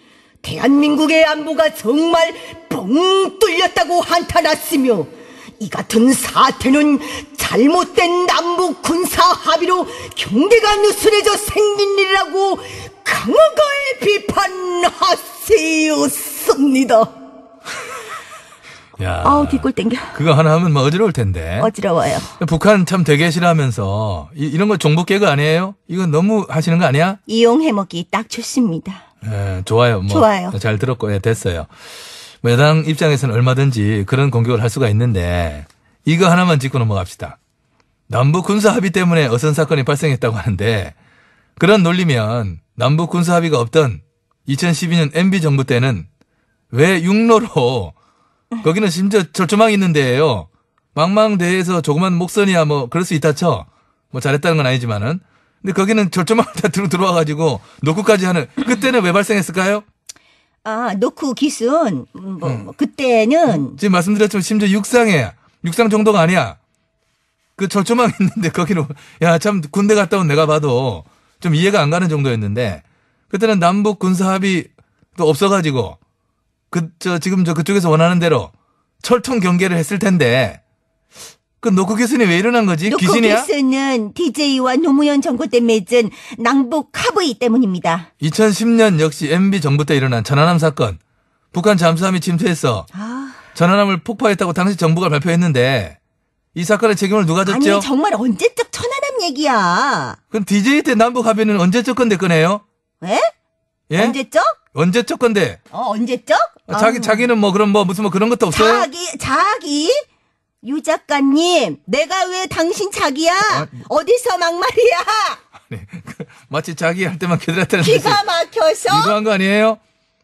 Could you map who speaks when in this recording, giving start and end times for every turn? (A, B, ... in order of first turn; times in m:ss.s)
0:00.4-0:17.1 A
0:19.0-0:21.7 B
0:19.2-0:20.2 A
0:21.6-0:22.4 A
0:22.4-0:27.2 B
0:27.3-0:29.0 A
0:29.2-0:31.7 B
0:30.1-0:30.6 A
0:32.4-0:37.4 B
0:38.1-0:41.0 B
0:41.6-0:46.1 B
0:46.7-0:47.9 B
0:48.6-0:59.8 B
1:00.6-1:03.8 A
1:02.4-1:02.7 B
1:03.5-1:06.6 B
1:07.6-1:16.0 B
1:16.7-1:20.6 B
1:21.6-1:23.5 B
1:22.9-1:28.1 A
1:28.2-1:31.0 B
1:31.5-1:32.9 B
1:32.9-1:33.4 A
1:33.6-1:36.0 B
1:36.5-1:37.9 B
1:37.4-1:40.2 A
1:40.3-1:42.6 B
1:43.0-1:43.3 A
1:43.9-1:44.2 B
1:44.0-1:44.6 A
1:44.7-1:45.6 B
1:45.7-1:47.3 A
1:46.7-1:48.9 B
1:48.5-1:50.0 A
1:50.6-1:55.4 A
1:53.5-1:53.7 B
1:55.7-1:58.2 B
1:57.8-1:59.2 A
1:58.9-1:59.8 B